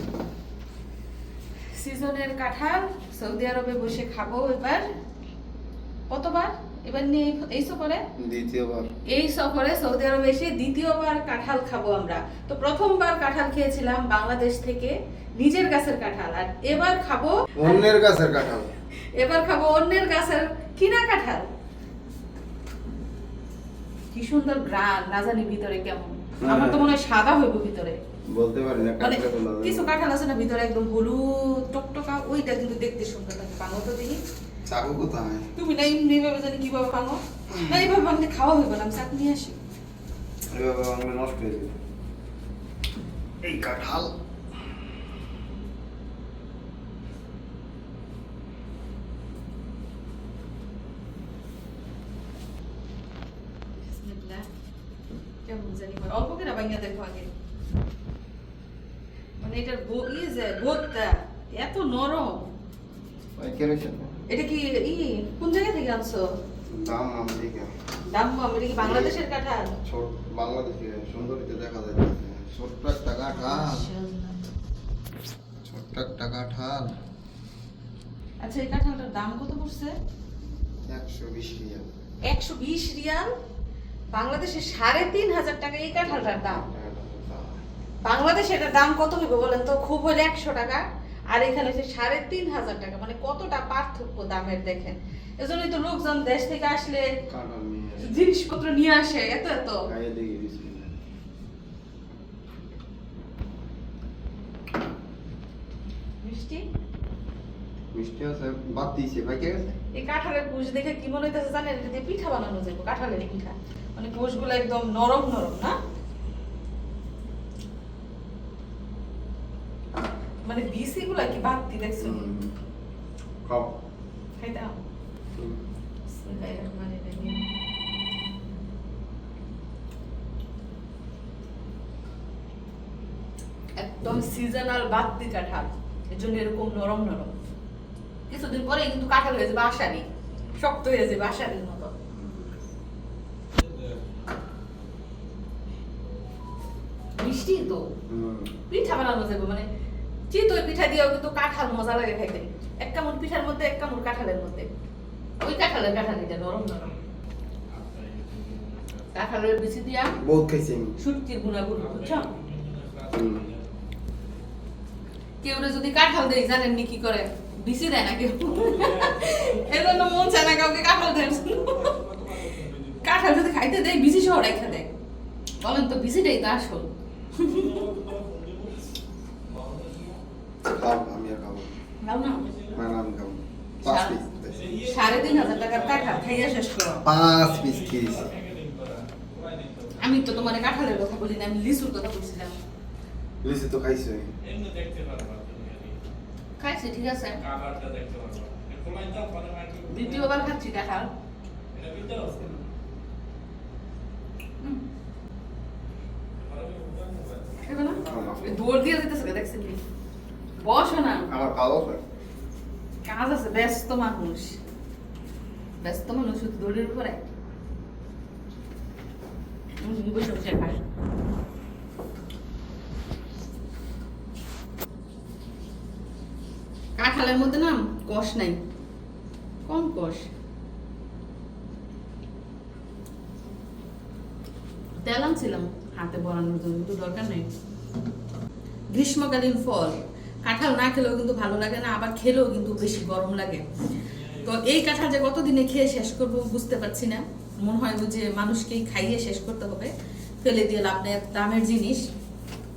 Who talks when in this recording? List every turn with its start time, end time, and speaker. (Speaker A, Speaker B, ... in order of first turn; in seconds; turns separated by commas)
Speaker A: 1.8-4.8, Speaker A: 6.1-8.0, Speaker B: 8.2-8.9, Speaker A: 9.1-17.9, Speaker B: 17.6-18.7, Speaker A: 19.1-21.5, Speaker A: 24.1-28.0, Speaker B: 26.4-26.9, Speaker B: 28.3-29.9, Speaker A: 29.0-34.2, Speaker B: 34.6-35.5, Speaker A: 35.5-39.6, Speaker B: 40.5-41.8, Speaker B: 43.4-44.1, Speaker A: 53.8-54.5, Speaker A: 55.5-57.3, Speaker A: 59.4-62.5, Speaker B: 63.4-64.1, Speaker A: 64.3-66.3, Speaker B: 66.7-67.7, Speaker A: 68.1-69.7, Speaker B: 68.8-69.2, Speaker B: 69.8-73.9, Speaker A: 73.3-74.4, Speaker B: 75.6-76.9, Speaker A: 78.4-79.9, Speaker B: 80.9-81.9, Speaker A: 82.3-83.3, Speaker A: 84.1-86.6, Speaker B: 86.0-87.6, Speaker A: 88.0-97.1, Speaker B: 97.3-98.2, Speaker A: 98.0-99.9, Speaker B: 99.9-100.9, Speaker A: 106.2-106.6, Speaker B: 107.9-109.8, Speaker A: 109.9-115.8, Speaker A: 120.4-122.2, Speaker B: 122.0-122.5, Speaker B: 123.4-123.7, Speaker A: 124.4-124.8, Speaker A: 126.1-127.5, Speaker A: 133.8-137.3, Speaker A: 138.3-140.0, Speaker A: 140.6-141.9, Speaker B: 142.1-142.5, Speaker C: 143.6-144.2, Speaker A: 147.2-147.8, Speaker B: 148.1-148.5, Speaker A: 148.7-149.7, Speaker A: 150.3-154.7, Speaker A: 155.4-156.9, Speaker C: 157.7-159.1, Speaker A: 159.1-160.2, Speaker B: 160.2-160.9, Speaker A: 161.0-162.3, Speaker C: 161.8-163.6, Speaker B: 163.1-163.4, Speaker A: 165.4-171.9, Speaker C: 168.4-173.4, Speaker A: 173.0-174.9, Speaker C: 174.1-174.8, Speaker A: 175.6-177.8, Speaker C: 177.4-178.9, Speaker C: 179.4-180.2, Speaker B: 180.6-181.7, Speaker A: 182.0-182.5, Speaker C: 182.3-182.8, Speaker B: 182.7-184.7, Speaker A: 183.8-184.2, Speaker C: 184.5-186.5, Speaker A: 184.9-187.0, Speaker B: 187.0-188.3, Speaker C: 187.2-191.2, Speaker A: 190.0-192.6, Speaker B: 193.4-194.3, Speaker C: 194.4-196.0, Speaker A: 196.6-197.4, Speaker C: 197.4-200.5, Speaker A: 199.9-201.1, Speaker C: 201.7-202.6, Speaker C: 206.3-208.4, Speaker A: 207.6-209.8, Speaker B: 208.0-208.6, Speaker A: 210.6-211.3, Speaker B: 211.3-212.0, Speaker A: 213.0-214.6, Speaker A: 215.8-217.2, Speaker A: 219.8-220.8, Speaker A: 227.0-228.6, Speaker A: 229.7-230.3, Speaker A: 235.0-237.5, Speaker A: 238.9-243.6, Speaker C: 244.1-244.7, Speaker A: 244.4-252.0